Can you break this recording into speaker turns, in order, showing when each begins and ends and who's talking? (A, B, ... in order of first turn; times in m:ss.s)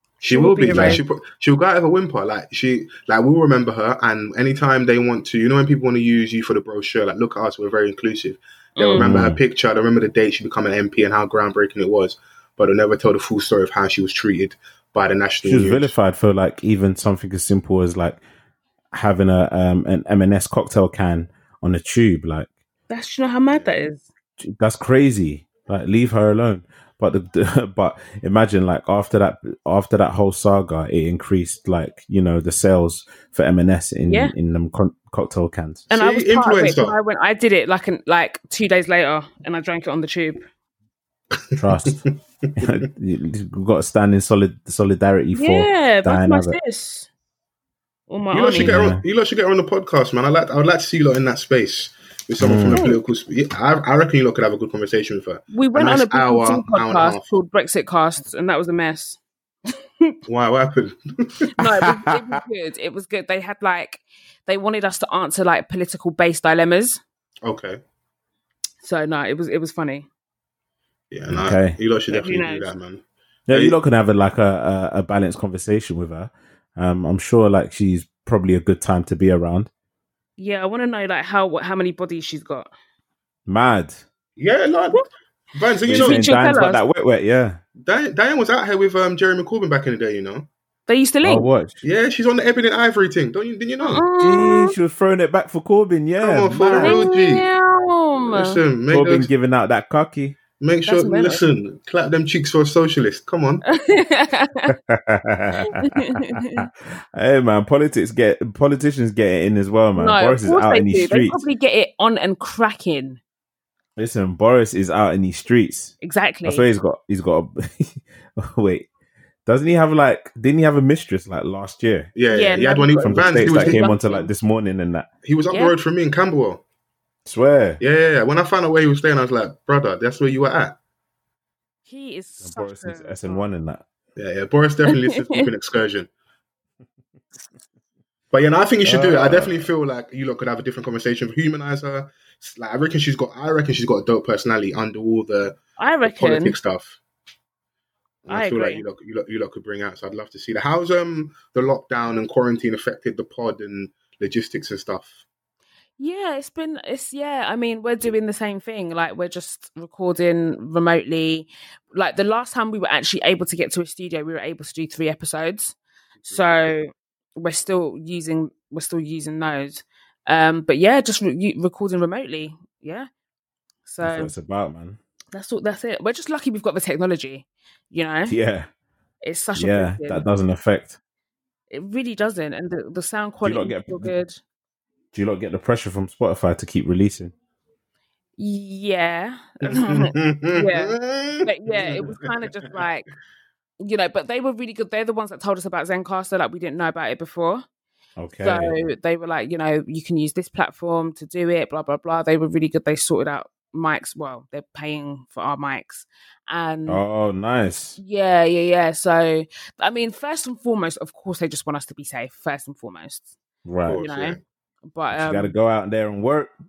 0:00.2-0:15.9 A
0:00.3-0:01.0 B
0:00.8-0:01.0 C
0:08.8-0:09.1 B
0:09.0-0:09.4 C
0:15.4-0:18.2 C
0:18.9-0:22.5 C
0:22.9-0:24.1 B
0:24.4-0:35.9 C
0:34.1-0:34.3 B
0:35.9-0:37.0 A
0:35.9-0:40.4 B
0:41.4-0:42.8 A
0:41.6-0:42.0 C
0:42.6-0:46.6 C
0:45.3-0:47.1 B
0:48.1-0:48.8 B
0:48.3-0:57.3 A
0:48.6-0:49.0 C
0:52.4-0:52.8 C
0:52.7-0:53.0 B
0:55.5-0:59.2 B
1:00.3-1:01.5 A
1:01.6-1:07.0 B
1:01.6-1:02.2 C
1:07.4-1:07.8 A
1:08.8-1:10.1 B
1:11.1-1:13.8 A
1:11.3-1:11.8 C
1:12.1-1:12.7 B
1:13.5-1:19.7 C
1:20.4-1:22.7 B
1:23.5-1:24.0 C
1:24.4-1:25.0 A
1:25.5-1:26.2 A
1:25.9-1:27.6 C
1:25.9-1:26.8 B
1:27.8-1:30.5 A
1:30.9-1:31.5 B
1:31.2-1:31.8 C
1:31.8-1:34.0 A
1:33.8-1:34.8 B
1:34.2-1:37.1 C
1:36.2-1:37.5 A
1:36.8-1:38.6 B
1:38.3-1:39.3 A
1:38.9-1:40.4 C
1:40.6-1:43.6 A
1:40.9-1:41.4 B
1:43.7-1:44.7 B
1:44.7-1:51.4 C
1:45.7-1:46.7 B
1:50.0-1:53.2 B
1:54.0-1:55.9 C
1:56.0-1:56.7 B
1:56.4-1:58.9 C
1:59.5-2:02.1 C
2:02.2-2:03.8 A
2:02.3-2:04.3 B
2:03.0-2:05.1 C
2:05.2-2:06.6 A
2:07.2-2:07.8 C
2:07.8-2:10.8 A
2:11.9-2:13.4 B
2:12.4-2:13.8 C
2:14.2-2:16.1 A
2:14.9-2:15.4 B
2:18.3-2:27.0 A
2:18.8-2:19.7 C
2:25.8-2:26.6 B
2:28.2-2:35.2 A
2:28.3-2:28.8 B
2:36.0-2:45.8 B
2:46.2-2:46.6 A
2:46.3-2:53.1 B
2:53.9-2:54.3 B
2:54.0-2:55.0 C
2:55.3-2:58.4 B
2:58.3-2:58.7 C
2:59.2-3:00.3 B
2:59.6-3:01.0 C
3:01.7-3:04.4 B
3:03.4-3:04.1 C
3:05.1-3:07.3 C
3:08.4-3:13.1 B
3:09.6-3:12.8 A
3:13.8-3:17.6 B
3:18.2-3:18.8 C
3:18.4-3:27.0 B
3:26.9-3:28.0 C
3:28.0-3:33.3 B
3:33.6-3:34.1 C
3:33.9-3:34.4 A
3:34.0-3:34.4 B
3:34.9-3:35.6 B
3:35.1-3:36.5 C